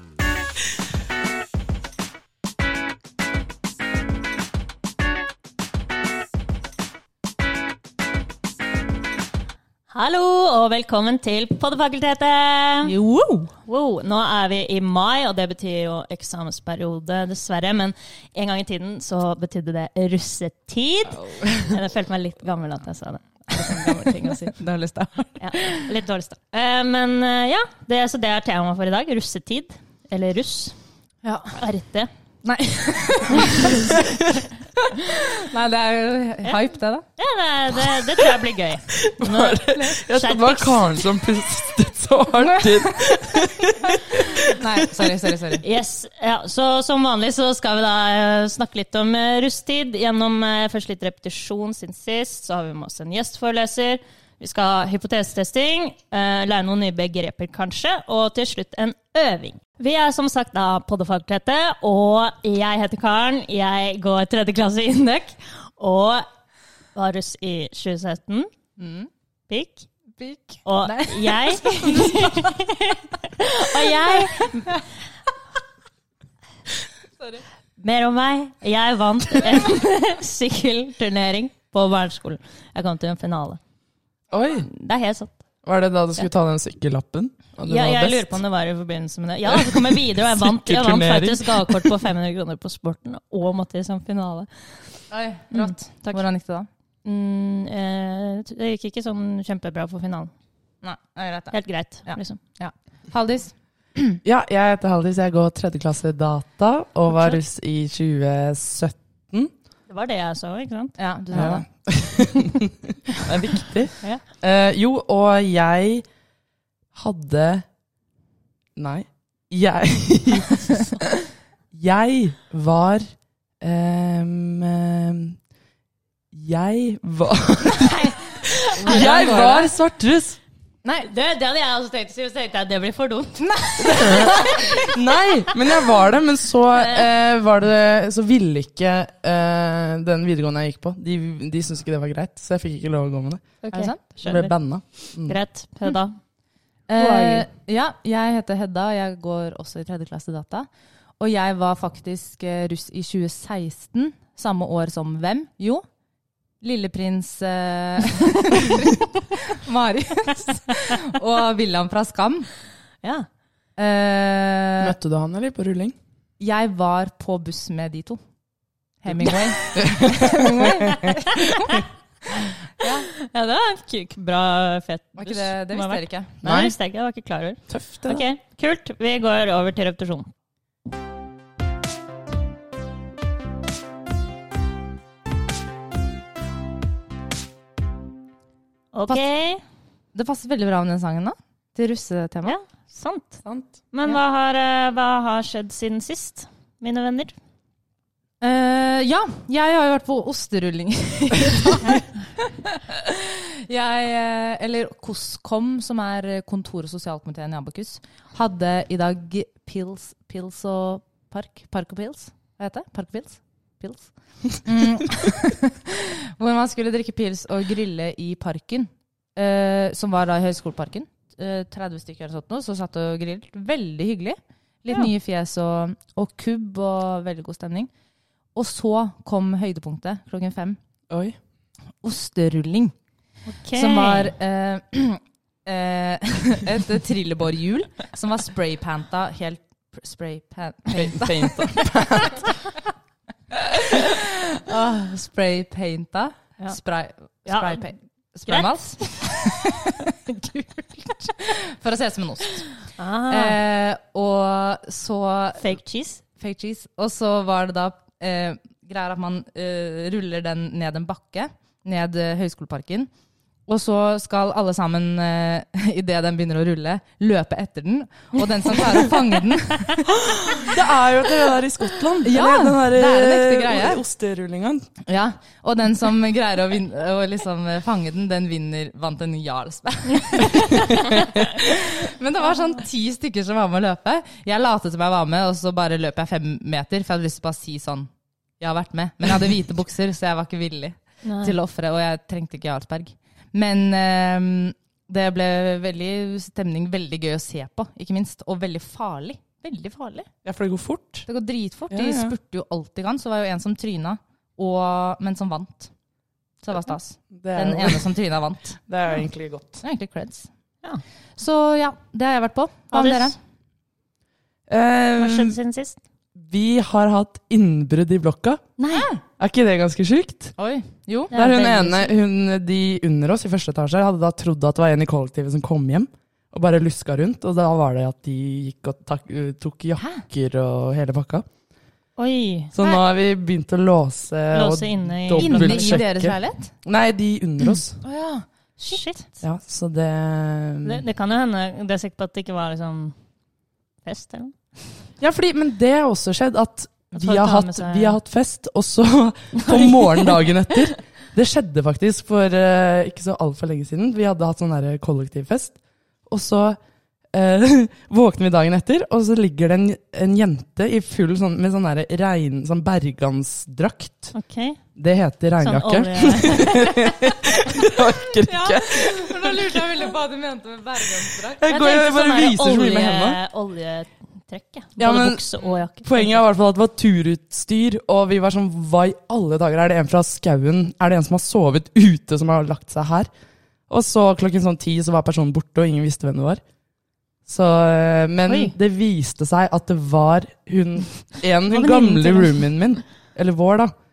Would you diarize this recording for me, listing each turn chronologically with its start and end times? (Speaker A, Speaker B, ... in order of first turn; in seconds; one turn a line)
Speaker A: 9.9-12.9
Speaker B: 12.8-13.5
Speaker A: 13.7-24.5
Speaker B: 23.5-25.8
Speaker A: 25.4-30.8
Speaker B: 31.2-31.6
Speaker A: 31.5-32.1
Speaker B: 32.4-34.2
Speaker A: 33.4-33.8
Speaker B: 34.9-37.0
Speaker A: 37.2-40.9
Speaker C: 39.0-44.6
Speaker B: 42.4-42.9
Speaker B: 44.4-45.6
Speaker A: 45.6-66.2
Speaker A: 66.9-68.5
Speaker B: 68.8-69.1
Speaker A: 69.5-69.9
Speaker B: 70.2-72.6
Speaker A: 70.6-74.8
Speaker A: 77.8-83.6
Speaker C: 84.3-84.7
Speaker A: 84.6-85.4
Speaker C: 85.6-88.4
Speaker A: 87.6-96.2
Speaker C: 89.5-91.9
Speaker B: 95.1-96.7
Speaker A: 97.0-100.3
Speaker B: 100.8-104.2
Speaker A: 101.5-102.4
Speaker C: 104.2-109.5
Speaker A: 107.1-107.4
Speaker A: 109.9-111.6
Speaker B: 111.0-111.6
Speaker C: 111.3-116.0
Speaker C: 116.9-117.7
Speaker C: 118.8-120.8
Speaker C: 121.7-125.4
Speaker C: 126.3-128.1
Speaker A: 127.8-129.6
Speaker B: 128.8-129.7
Speaker C: 128.8-130.4
Speaker A: 130.8-134.9
Speaker B: 133.4-134.4
Speaker C: 133.8-145.4
Speaker A: 136.7-137.1
Speaker A: 143.6-144.5
Speaker B: 143.7-144.0
Speaker A: 145.2-146.2
Speaker B: 146.9-150.7
Speaker A: 146.9-147.5
Speaker B: 151.2-155.8
Speaker B: 156.6-162.5
Speaker B: 163.8-164.9
Speaker C: 164.8-165.9
Speaker B: 166.4-168.2
Speaker B: 169.0-171.8
Speaker C: 169.8-170.9
Speaker A: 170.8-171.8
Speaker B: 172.8-173.1
Speaker A: 172.8-180.3
Speaker B: 175.2-176.4
Speaker C: 176.4-176.7
Speaker C: 177.7-178.2
Speaker A: 188.9-189.6
Speaker B: 190.1-192.5
Speaker A: 192.4-197.3
Speaker C: 193.4-193.7
Speaker B: 198.4-227.9
Speaker B: 228.5-230.8
Speaker C: 231.1-231.4
Speaker B: 232.0-232.9
Speaker A: 233.5-234.3
Speaker B: 233.7-242.5
Speaker C: 240.9-242.5
Speaker B: 243.6-252.7
Speaker A: 247.4-247.9
Speaker A: 248.5-249.4
Speaker A: 253.0-253.6
Speaker B: 253.3-255.7
Speaker A: 255.6-256.2
Speaker B: 256.4-263.1
Speaker B: 263.7-270.6
Speaker C: 270.2-274.9
Speaker B: 272.2-274.0
Speaker B: 275.1-300.3
Speaker A: 291.2-291.5
Speaker C: 300.4-301.2
Speaker B: 301.3-305.9
Speaker C: 301.9-302.3
Speaker B: 306.6-308.8
Speaker C: 307.3-308.1
Speaker C: 308.9-309.8
Speaker B: 309.8-310.5
Speaker B: 311.4-313.4
Speaker A: 312.9-313.4
Speaker C: 314.7-315.6
Speaker A: 315.2-316.0
Speaker C: 316.3-318.7
Speaker B: 318.8-319.2
Speaker C: 319.4-320.5
Speaker B: 320.6-322.0
Speaker A: 321.3-321.9
Speaker C: 321.3-331.4
Speaker B: 330.0-330.2
Speaker A: 332.2-332.7
Speaker C: 332.7-338.0
Speaker A: 334.5-336.0
Speaker B: 335.4-336.7
Speaker B: 338.0-339.0
Speaker A: 338.9-339.4
Speaker C: 339.4-341.0
Speaker A: 340.8-343.1
Speaker A: 344.0-344.5
Speaker C: 345.2-356.8
Speaker A: 347.1-348.2
Speaker A: 349.6-350.4
Speaker C: 357.3-364.3
Speaker A: 364.3-364.8
Speaker C: 364.9-369.8
Speaker A: 365.6-367.1
Speaker A: 368.5-368.7
Speaker B: 368.5-371.6
Speaker C: 371.6-373.4
Speaker A: 371.7-376.4
Speaker C: 375.0-375.4
Speaker C: 376.0-383.3
Speaker C: 383.9-386.6
Speaker C: 387.5-393.9
Speaker A: 388.4-388.7
Speaker A: 391.7-392.6